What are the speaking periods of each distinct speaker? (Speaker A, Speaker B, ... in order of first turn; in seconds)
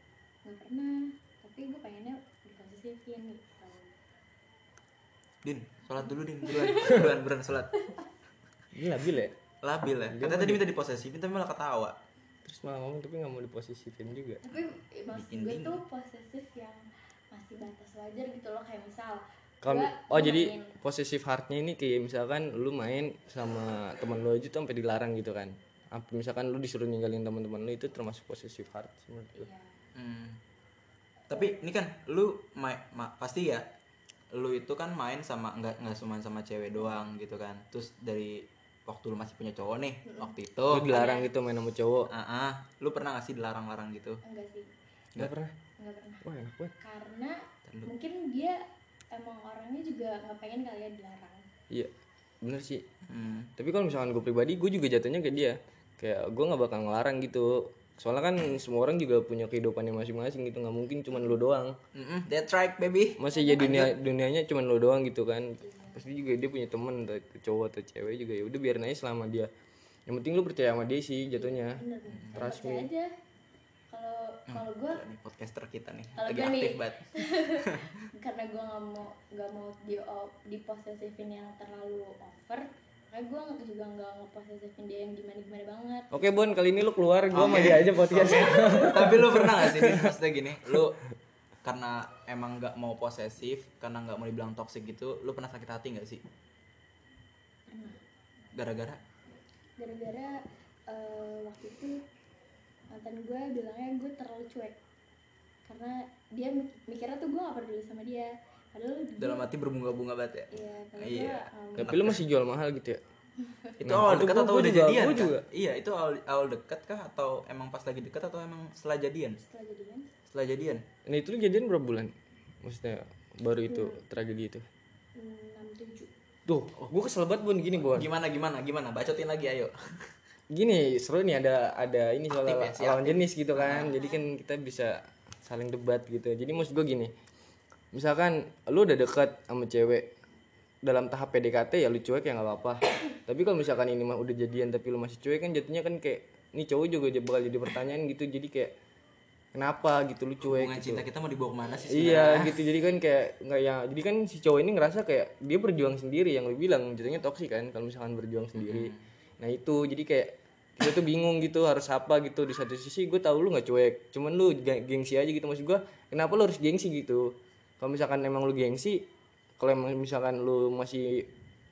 Speaker A: 0.4-4.0, 6.4-7.1, 7.7-8.0, 14.4-20.7, 29.3-29.8, 31.3-31.6, 40.0-40.3, 40.9-41.3, 44.2-44.7, 45.8-46.2, 46.8-48.6, 49.1-51.4, 63.3-63.8, 65.6-66.0, 71.3-73.1, 73.9-75.0, 76.2-86.1, 97.7-98.0, 99.8-102.0, 102.9-104.8, 105.7-109.5, 110.5-112.0, 113.4-113.7, 119.4-120.1, 123.7-124.0, 125.2-126.1, 133.7-134.2
Speaker B: 5.4-7.8, 9.6-11.9, 15.1-15.8, 29.9-30.4, 31.3-33.6, 34.3-41.0, 42.1-44.2, 53.1-53.5, 61.9-63.9, 72.1-72.4, 74.5-77.8, 87.3-91.0, 91.6-96.2, 98.5-99.0, 109.2-112.2, 113.8-119.4, 120.3-120.8, 127.9-130.1, 132.4-134.0, 150.4-152.6, 158.6-159.0
Speaker C: 8.7-9.3, 10.1-10.6, 12.4-14.4, 19.6-29.5, 40.7-42.1, 45.1-45.5, 46.2-46.7, 52.4-52.8, 53.6-61.8, 63.2-69.5, 70.1-71.8, 72.3-72.9, 86.1-90.1, 111.8-113.0, 113.8-115.4, 121.0-124.6, 126.5-128.1, 130.5-137.1, 137.9-140.1, 140.8-148.7, 149.5-151.0, 151.9-169.0, 169.6-171.3